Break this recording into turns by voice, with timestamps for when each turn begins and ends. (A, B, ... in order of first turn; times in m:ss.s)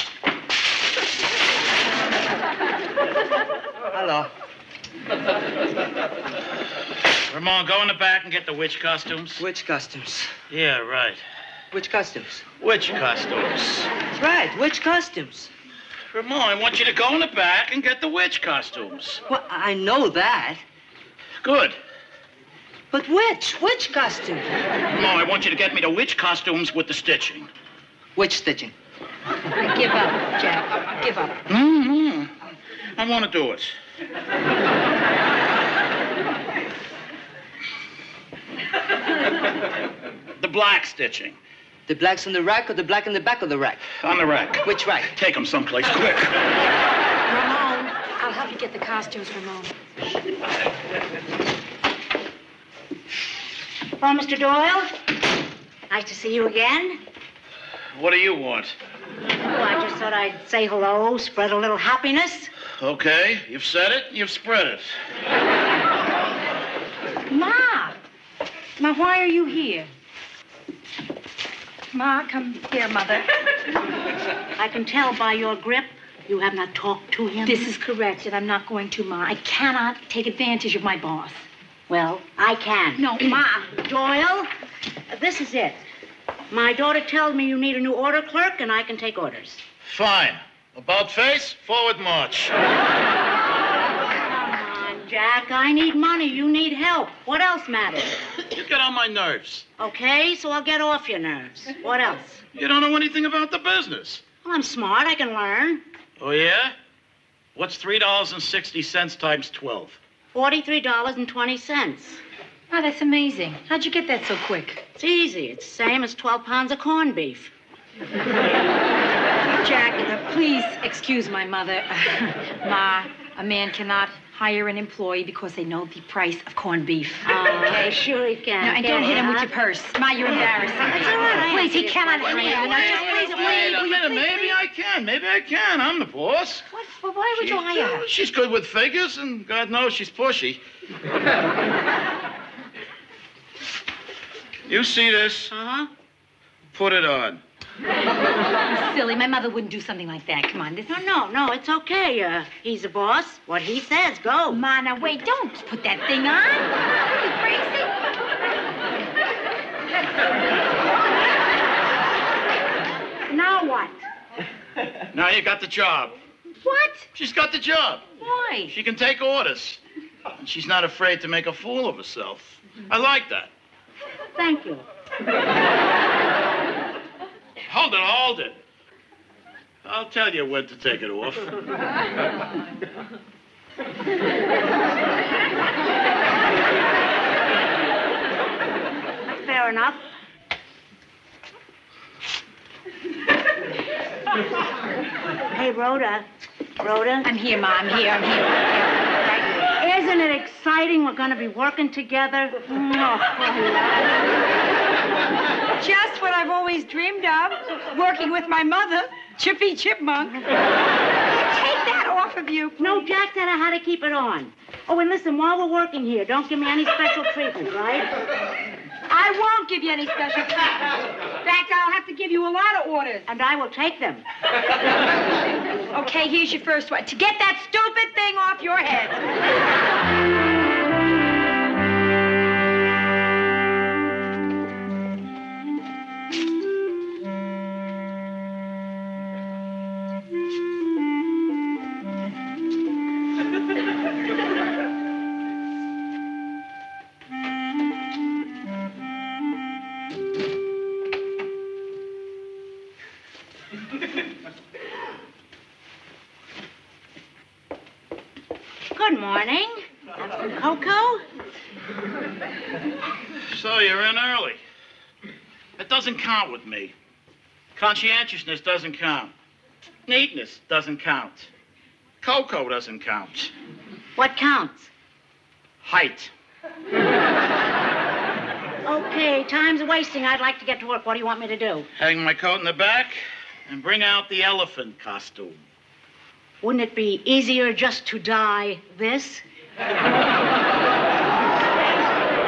0:03.9-0:04.3 A
0:07.3-0:09.4 B
0:09.4-0:10.3 A
0:10.5-0:11.2 B
0:11.7-0:12.4 A
0:12.6-0:13.9 B
0:14.1-0:15.5 A
0:16.1-0:19.2 B
0:19.3-0:20.6 A
0:21.4-0:21.8 B
0:22.9-0:24.5 A
0:24.9-0:27.5 B
0:28.2-0:28.7 A
0:29.6-0:31.4 C
0:31.5-0:32.3 B
0:33.0-0:33.7 B
0:40.4-0:41.4 B
0:41.9-0:43.8 A
0:44.0-0:46.4 B
0:44.6-0:45.1 A
0:47.3-0:49.7 C
0:54.0-0:54.9 D
0:55.9-0:57.0 D
0:58.0-0:58.8 B
0:59.5-1:02.5 D
1:02.8-1:04.9 B
1:07.3-1:08.0 C
1:08.8-1:09.9 C
1:11.9-1:13.3 C
1:14.6-1:17.7 D
1:17.4-1:21.5 C
1:21.9-1:24.5 D
1:23.0-1:23.6 C
1:25.1-1:25.8 D
1:26.5-1:29.6 D
1:29.9-1:32.6 B
1:34.1-1:38.2 D
1:38.5-1:39.7 B
1:39.8-1:42.4 D
1:42.6-1:44.3 B
1:44.4-1:45.8 D
1:46.2-1:46.7 B
1:47.6-1:50.0 B
1:50.3-1:52.2 D
1:52.7-1:54.8 C
1:55.0-1:57.5 D
1:59.5-2:08.0 C
2:07.2-2:09.5 D
2:08.6-2:14.6 C
2:10.7-2:13.9 D
2:11.1-2:11.5 B
2:12.2-2:16.7 B
2:16.7-2:18.1 C
2:17.4-2:20.6 B
2:24.7-2:25.5 B
2:25.5-2:25.9 D
2:26.7-2:27.4 B
2:28.7-2:31.0 C
2:30.9-2:34.6 D
2:34.5-2:37.9 C
2:43.3-2:44.0 C
2:45.1-2:46.2 B
2:46.6-2:47.1 C
2:47.2-2:48.1 B
2:48.2-2:48.7 C
2:48.7-2:49.8 B
2:50.4-2:53.5 B
2:54.4-2:54.9 D
2:57.7-2:58.6 B
2:59.8-3:01.5 B
3:09.3-3:10.0 D
3:15.5-3:16.3 D
3:16.8-3:17.3 D
3:17.2-3:18.6 C
3:19.1-3:24.3 D
3:25.8-3:30.4 C
3:31.3-3:33.0 C
3:32.8-3:38.1 D
3:39.1-3:40.8 C
3:41.4-3:43.3 C
3:43.3-3:44.2 D
3:45.9-3:49.2 C
4:18.9-4:21.2 D
4:23.5-4:24.6 B
4:25.8-4:26.9 B
4:27.8-4:29.3 B
4:30.1-4:31.5 B
4:32.2-4:33.5 B
4:34.2-4:34.9 D
4:35.8-4:36.3 B
4:38.8-4:41.9 D
4:42.0-4:45.6 B
4:46.6-4:49.4 D